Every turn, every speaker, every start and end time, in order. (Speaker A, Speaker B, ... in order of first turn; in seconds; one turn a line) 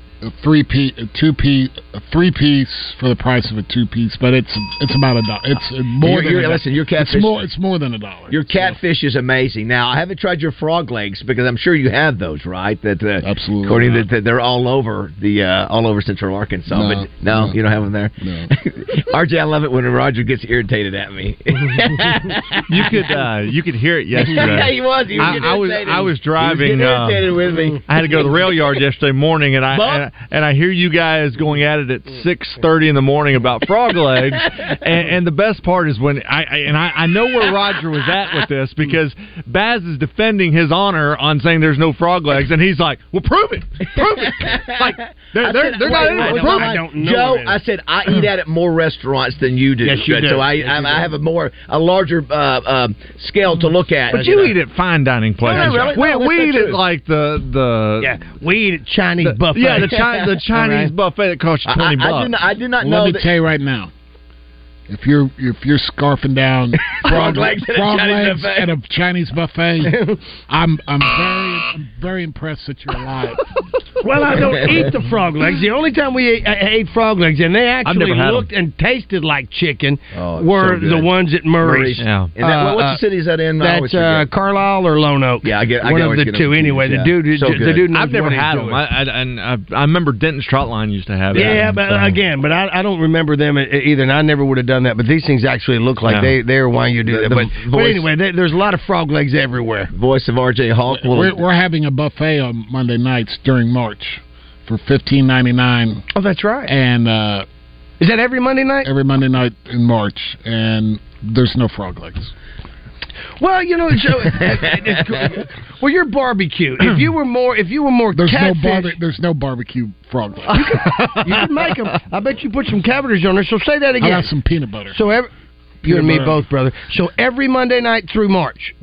Speaker A: 0.2-8.8
Speaker B: 6.0-7.4
Speaker B: 8.3-22.9
Speaker A: 13.2-14.1
Speaker A: 16.7-17.6
Speaker A: 18.2-18.5
Speaker C: 22.7-45.0
Speaker B: 24.2-28.5
Speaker B: 29.7-30.0
Speaker B: 44.0-54.5
Speaker D: 45.5-47.6
Speaker C: 45.5-46.6
Speaker D: 49.8-51.1
Speaker C: 54.1-58.2
Speaker D: 54.1-54.5
Speaker D: 55.4-56.3
Speaker B: 55.4-56.8
Speaker D: 58.0-59.9
Speaker C: 59.2-62.3
Speaker B: 59.9-60.9
Speaker B: 61.7-63.2
Speaker A: 62.8-63.9
Speaker A: 64.9-70.0
Speaker B: 67.0-68.7
Speaker D: 69.8-70.2
Speaker A: 70.5-73.4
Speaker D: 74.0-83.0
Speaker C: 77.8-78.5
Speaker B: 80.1-84.3
Speaker C: 82.0-82.3
Speaker D: 83.6-88.8
Speaker B: 85.4-87.9
Speaker C: 87.9-92.1
Speaker B: 91.3-91.6
Speaker D: 91.3-99.9
Speaker C: 96.0-96.3
Speaker B: 97.1-98.1
Speaker B: 99.9-101.4
Speaker A: 100.9-106.0
Speaker D: 106.1-106.7
Speaker A: 106.7-107.5
Speaker D: 108.0-108.9
Speaker A: 108.8-112.3
Speaker D: 113.4-118.9
Speaker A: 118.1-121.5
Speaker D: 120.5-124.3
Speaker A: 124.0-125.0
Speaker D: 124.9-125.3
Speaker A: 125.8-126.4
Speaker D: 125.8-128.7